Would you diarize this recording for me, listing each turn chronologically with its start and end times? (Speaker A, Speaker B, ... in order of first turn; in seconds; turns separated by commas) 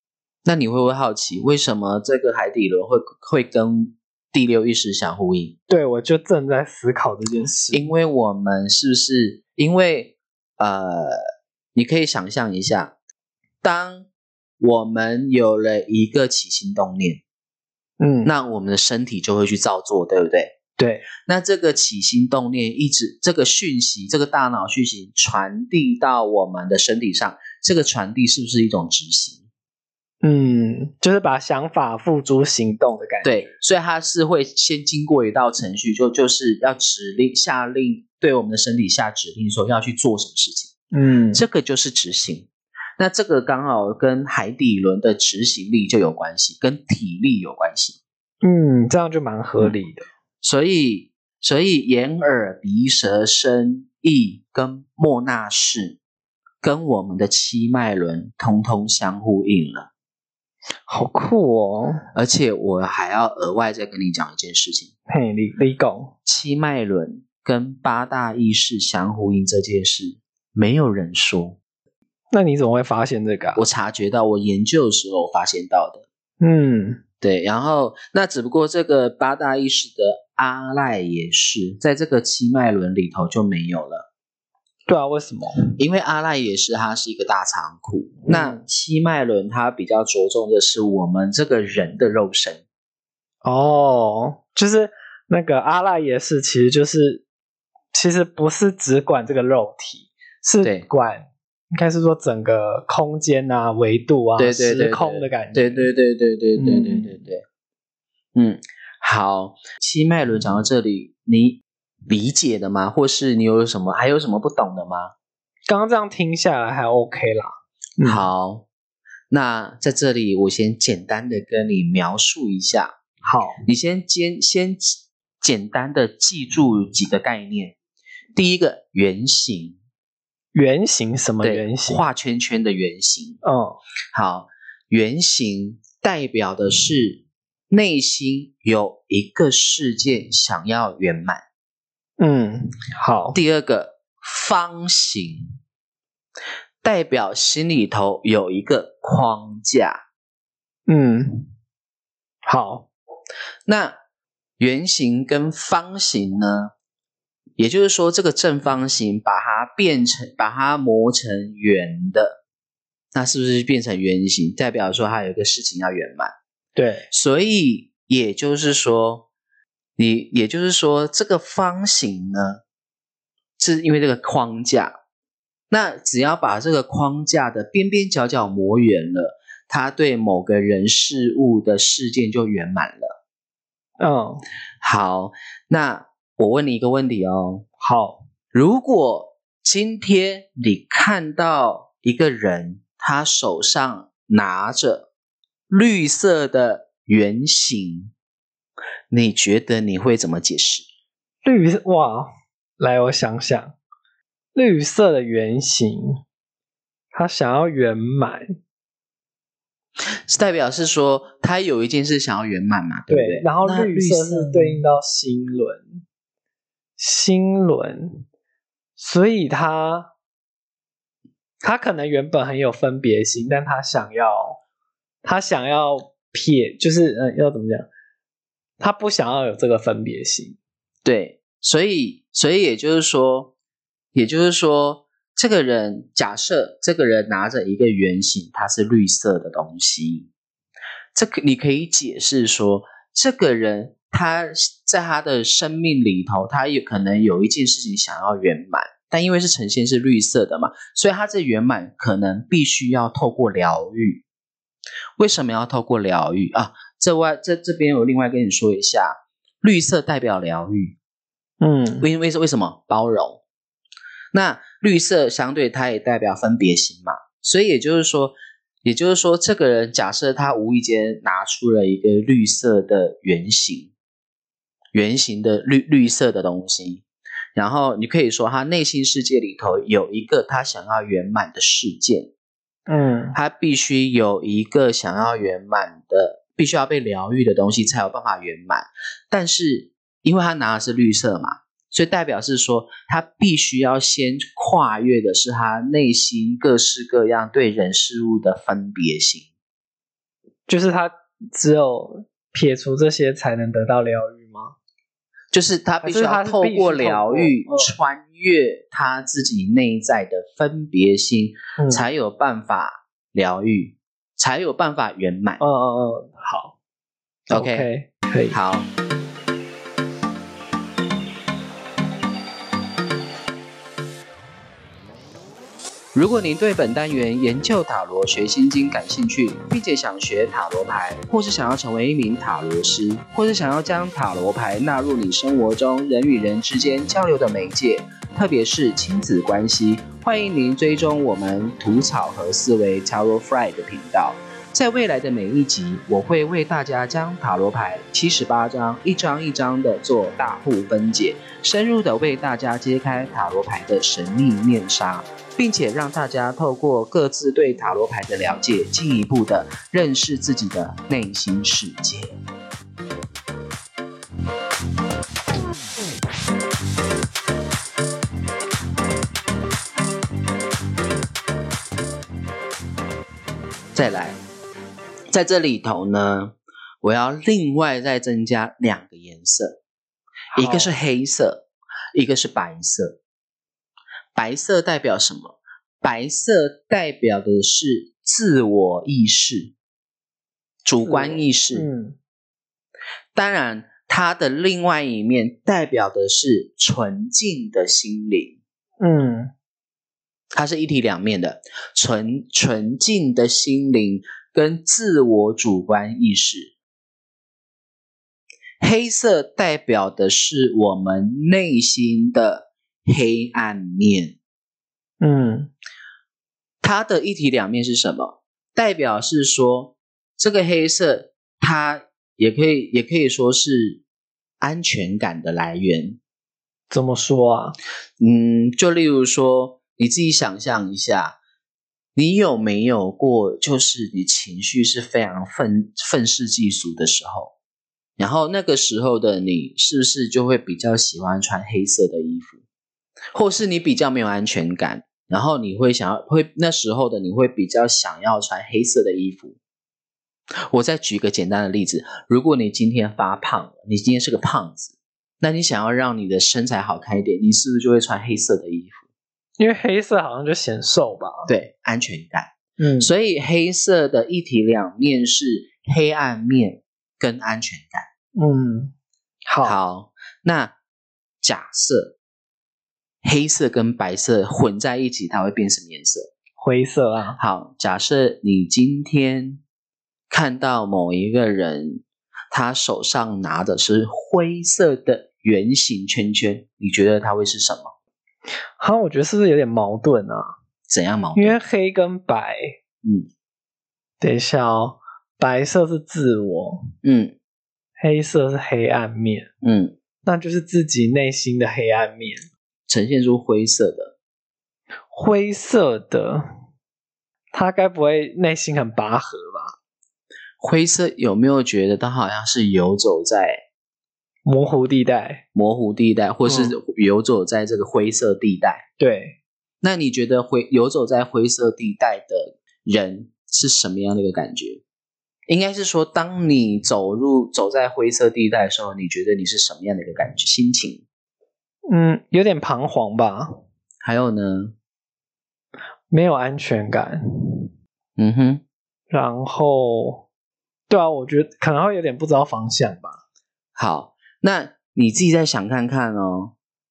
Speaker A: 0.4-5.5, Speaker B: 5.7-7.9, Speaker A: 7.7-11.2, Speaker A: 11.7-12.9, Speaker A: 13.6-14.1, Speaker A: 14.6-17.2, Speaker B: 18.0-18.3, Speaker A: 18.2-20.5, Speaker B: 20.8-21.0, Speaker A: 21.2-29.4, Speaker B: 30.2-33.5, Speaker A: 33.2-40.7, Speaker B: 40.9-41.4, Speaker A: 41.3-48.0, Speaker B: 48.4-50.0, Speaker A: 50.4-56.0, Speaker A: 56.6-59.9, Speaker B: 60.9-62.0, Speaker A: 62.1-64.9, Speaker B: 65.1-66.1, Speaker A: 66.2-71.6, Speaker B: 72.3-73.6, Speaker A: 73.5-76.0, Speaker B: 76.4-77.0, Speaker A: 77.2-84.1, Speaker B: 84.8-85.6, Speaker A: 85.8-92.6, Speaker B: 88.3-88.6, Speaker B: 93.4-97.2, Speaker B: 97.9-105.9, Speaker A: 100.6-100.9, Speaker A: 104.4-107.4, Speaker B: 106.6-107.1, Speaker A: 108.3-115.1, Speaker B: 115.7-118.2, Speaker A: 118.0-118.7, Speaker A: 119.3-122.9, Speaker B: 123.2-123.6, Speaker A: 123.6-127.8, Speaker A: 128.3-129.8, Speaker B: 130.5-132.0, Speaker A: 131.4-133.4, Speaker B: 133.4-133.8, Speaker A: 134.1-141.4, Speaker B: 142.2-143.4, Speaker A: 143.3-145.6, Speaker A: 146.8-150.0, Speaker B: 150.9-151.5, Speaker B: 152.4-152.9, Speaker A: 153.7-154.0, Speaker A: 154.6-156.7, Speaker A: 157.6-162.4, Speaker A: 163.1-166.3, Speaker B: 166.7-167.1, Speaker A: 167.1-169.2, Speaker A: 170.0-172.6, Speaker A: 173.6-174.9, Speaker A: 175.7-183.2, Speaker B: 184.0-184.4, Speaker A: 184.8-187.7, Speaker B: 187.8-188.2, Speaker A: 188.5-195.1, Speaker A: 195.7-198.1, Speaker A: 199.1-200.8, Speaker B: 201.4-203.8, Speaker B: 204.5-206.2, Speaker B: 207.1-208.5, Speaker A: 210.3-214.8, Speaker B: 213.1-216.0, Speaker B: 217.0-218.2, Speaker B: 219.0-220.1, Speaker B: 221.6-224.6, Speaker B: 225.2-227.9, Speaker B: 228.8-230.6, Speaker A: 231.0-233.5, Speaker A: 234.1-240.3, Speaker A: 241.1-254.2, Speaker A: 255.2-261.0, Speaker B: 261.6-262.1, Speaker A: 262.0-263.4, Speaker A: 264.3-273.9, Speaker A: 274.9-277.0, Speaker A: 277.6-282.3, Speaker B: 282.9-283.4, Speaker A: 283.3-299.5, Speaker B: 300.7-304.7, Speaker A: 305.5-315.6, Speaker B: 306.0-307.9, Speaker B: 311.8-312.0, Speaker B: 315.6-316.7, Speaker A: 317.5-317.9, Speaker B: 317.5-318.6, Speaker A: 318.5-318.9, Speaker A: 326.1-362.4, Speaker A: 373.9-374.4, Speaker A: 375.3-379.8, Speaker B: 380.5-380.9, Speaker A: 380.5-383.2, Speaker A: 384.3-389.7, Speaker A: 390.8-391.9, Speaker B: 391.0-392.1, Speaker A: 393.3-398.6, Speaker B: 399.0-399.5, Speaker A: 400.5-406.7, Speaker A: 408.8-414.4, Speaker B: 415.2-415.7, Speaker A: 416.8-424.0, Speaker A: 424.6-426.2, Speaker B: 426.9-427.8, Speaker A: 428.2-431.4, Speaker A: 432.1-437.5, Speaker A: 438.2-442.6, Speaker A: 443.3-449.6, Speaker A: 450.7-459.0, Speaker B: 459.6-461.5, Speaker A: 461.4-468.1, Speaker B: 462.8-463.1, Speaker B: 468.3-468.9, Speaker B: 469.4-469.8, Speaker A: 469.6-470.7, Speaker A: 471.4-472.1, Speaker A: 473.2-476.3, Speaker B: 476.6-477.4, Speaker A: 477.4-479.6, Speaker A: 480.3-487.9, Speaker B: 488.8-490.5, Speaker A: 490.9-491.6, Speaker B: 491.3-492.8, Speaker A: 493.0-493.3, Speaker B: 494.2-496.9, Speaker A: 497.0-497.3, Speaker B: 498.0-499.5, Speaker A: 499.6-499.9, Speaker B: 500.2-502.5, Speaker A: 502.9-504.1, Speaker B: 505.1-506.4, Speaker B: 507.5-509.7, Speaker A: 510.6-513.6, Speaker B: 514.5-515.4, Speaker A: 515.5-518.8, Speaker B: 516.5-516.7, Speaker B: 519.0-519.4, Speaker A: 519.8-524.8, Speaker A: 525.5-531.0, Speaker B: 531.9-533.6, Speaker A: 534.0-534.7, Speaker B: 536.1-537.7, Speaker A: 538.2-538.6, Speaker B: 539.1-540.2, Speaker B: 540.9-543.2, Speaker A: 543.8-546.5